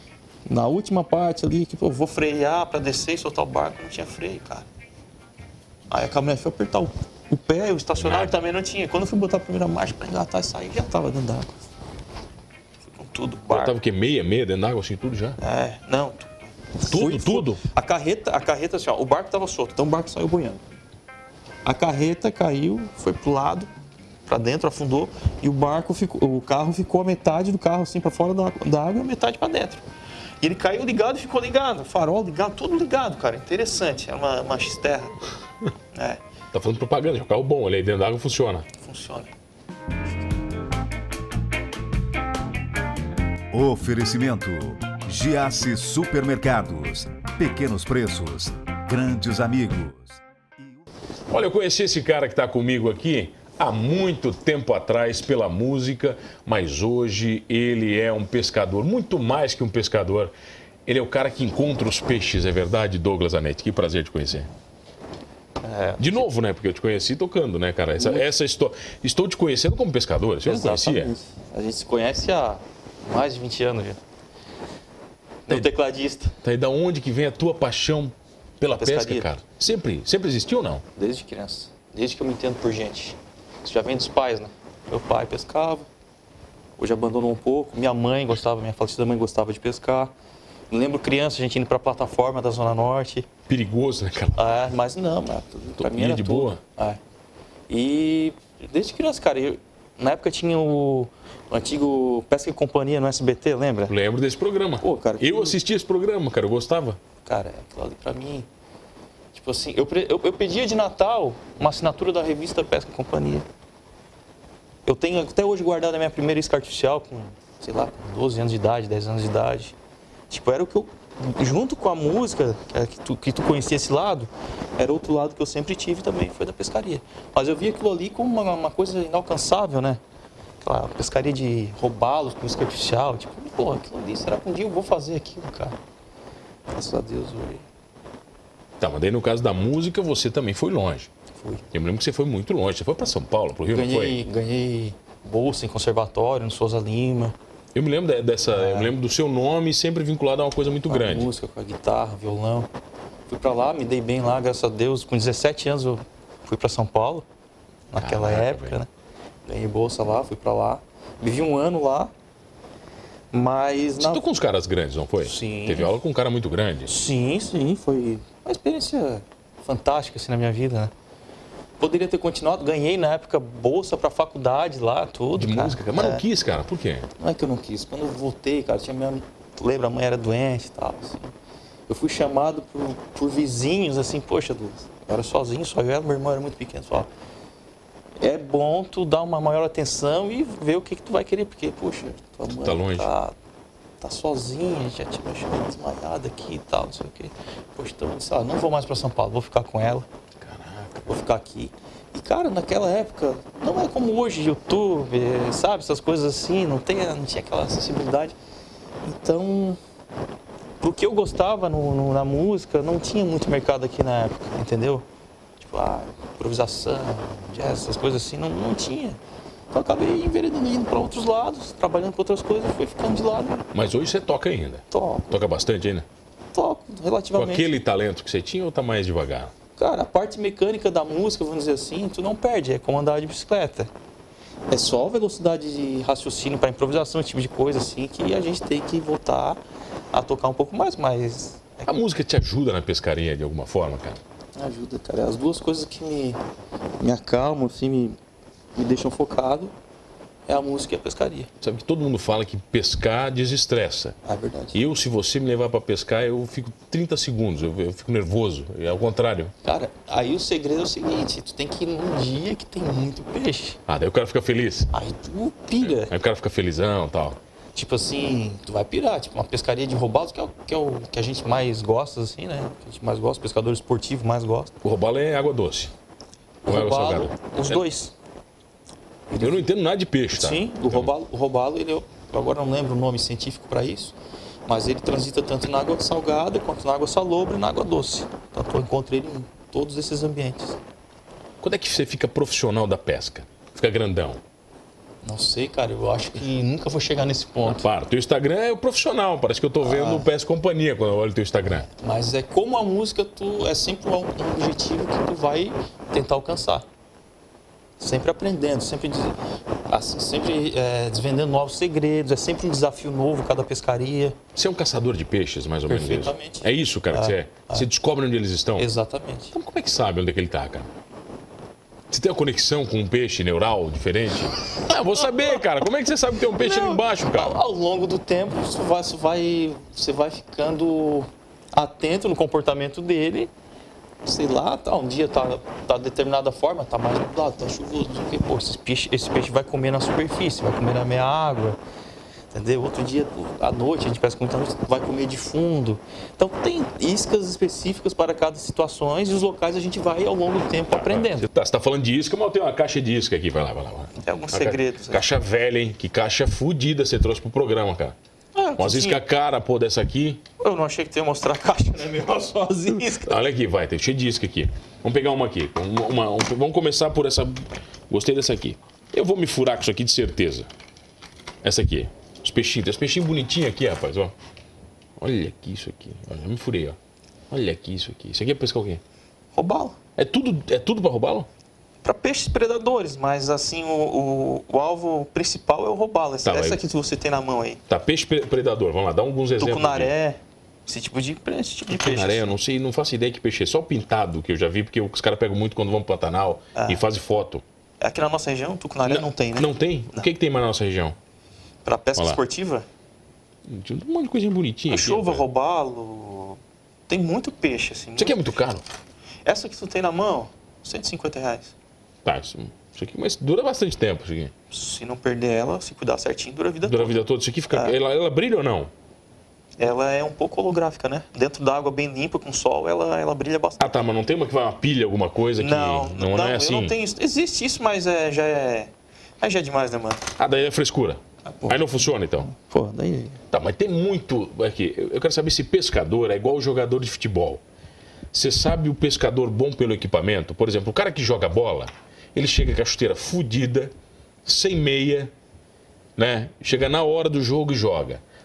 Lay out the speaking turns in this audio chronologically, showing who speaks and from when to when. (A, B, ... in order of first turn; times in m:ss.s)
0:00.5-0:04.7 A
0:05.9-0:11.6 A
0:08.0-0:08.3 B
0:12.8-0:13.8 A
0:13.5-0:15.4 B
0:15.4-0:20.6 A
0:16.8-0:17.6 B
0:21.6-0:23.7 A
0:24.3-0:29.8 A
0:30.4-0:35.1 A
0:35.9-0:36.2 A
0:36.5-0:38.7 B
0:38.8-0:39.3 A
0:43.5-0:50.7 C
0:51.3-1:00.3 B
1:00.9-1:04.5 B
1:05.6-1:06.3 A
1:06.0-1:11.1 B
1:08.0-1:08.3 A
1:10.4-1:14.0 A
1:15.5-1:16.3 A
1:16.4-1:20.8 B
1:18.7-1:19.3 A
1:20.9-1:25.9 A
1:26.8-1:30.1 A
1:30.7-1:33.3 A
1:33.5-1:34.5 B
1:34.4-1:37.0 A
1:35.8-1:36.6 B
1:37.7-1:44.0 A
1:43.9-1:47.0 B
1:44.8-1:45.6 A
1:47.2-1:48.5 A
1:49.3-1:53.5 A
1:54.9-1:59.8 A
2:00.3-2:10.0 A
2:10.6-2:15.8 A
2:16.7-2:17.7 A
2:18.8-2:21.1 B
2:21.4-2:21.6 A
2:21.7-2:24.2 B
2:23.7-2:27.4 A
2:27.7-2:31.3 B
2:28.5-2:29.0 A
2:30.9-2:32.7 A
2:33.3-2:37.3 A
2:37.9-2:38.9 A
2:38.0-2:38.8 B
2:39.5-2:42.1 A
2:43.3-2:44.2 A
2:44.0-2:46.9 B
2:45.2-2:45.9 A
2:46.9-2:50.9 A
2:51.8-2:56.2 A
2:55.4-2:57.1 B
2:57.2-3:01.3 A
3:01.9-3:07.1 A
3:08.2-3:13.3 A
3:12.5-3:13.1 B
3:14.0-3:20.1 A
3:20.4-3:21.1 B
3:21.1-3:28.4 A
3:29.0-3:29.8 A
3:30.8-3:35.0 A
3:35.6-3:39.2 A
3:39.7-3:43.7 A
3:43.7-3:46.1 B
3:44.9-3:45.4 A
3:46.5-3:47.7 A
3:47.4-3:49.5 B
3:49.8-3:53.9 A
3:54.7-3:59.6 A
4:00.1-4:01.9 A
4:01.9-4:04.2 B
4:04.6-4:06.4 A
4:07.0-4:08.2 A
4:08.8-4:09.7 A
4:10.5-4:11.5 A
4:11.6-4:14.2 B
4:14.2-4:14.8 A
4:14.7-4:19.5 B
4:19.6-4:23.8 A
4:23.9-4:24.9 B
4:24.9-4:26.1 A
4:25.8-4:27.4 B
4:27.7-4:34.7 A
4:34.8-4:35.9 B
4:36.6-4:38.2 A
4:36.7-4:37.8 B
4:39.3-4:39.6 A
4:39.4-4:41.1 B
4:40.4-4:44.2 A
4:44.7-4:50.8 A
4:51.6-4:54.4 B
4:55.2-4:57.9 A
4:57.6-5:01.9 B
4:59.8-5:00.3 A
5:01.9-5:06.9 A
5:08.0-5:09.4 A
5:09.9-5:14.4 A
5:14.6-5:18.9 B
5:15.9-5:17.9 A
5:18.8-5:19.5 A
5:19.5-5:20.9 B
5:22.1-5:27.6 B
5:26.5-5:33.5 A
5:34.2-5:41.8 A
5:42.5-5:51.5 A
5:50.9-5:58.2 B
5:54.2-5:55.3 A
5:58.5-5:59.2 A
5:58.8-6:00.4 B
6:00.6-6:03.4 A
6:03.1-6:10.7 B
6:11.6-6:14.3 B
6:15.2-6:17.0 B
6:17.5-6:19.0 B
6:19.5-6:20.0 A
6:20.2-6:21.5 B
6:22.0-6:27.8 A
6:26.4-6:26.8 B
6:27.9-6:30.1 B
6:29.6-6:32.6 A
6:31.9-6:37.6 B
6:36.8-6:37.0 A
6:38.0-6:40.3 A
6:39.1-6:41.2 B
6:41.8-6:42.9 A
6:43.7-6:45.4 B
6:44.9-6:48.6 A
6:48.2-6:48.9 B
6:49.4-6:51.7 A
6:52.2-6:54.5 B
6:54.7-6:57.2 A
6:56.8-6:58.9 B
6:57.7-6:58.0 A
6:59.8-7:04.0 A
7:03.8-7:07.0 B
7:05.6-7:10.2 A
7:10.4-7:12.5 B
7:11.4-7:13.4 A
7:13.5-7:17.6 B
7:18.3-7:23.9 B
7:24.4-7:25.3 B
7:26.2-7:28.2 B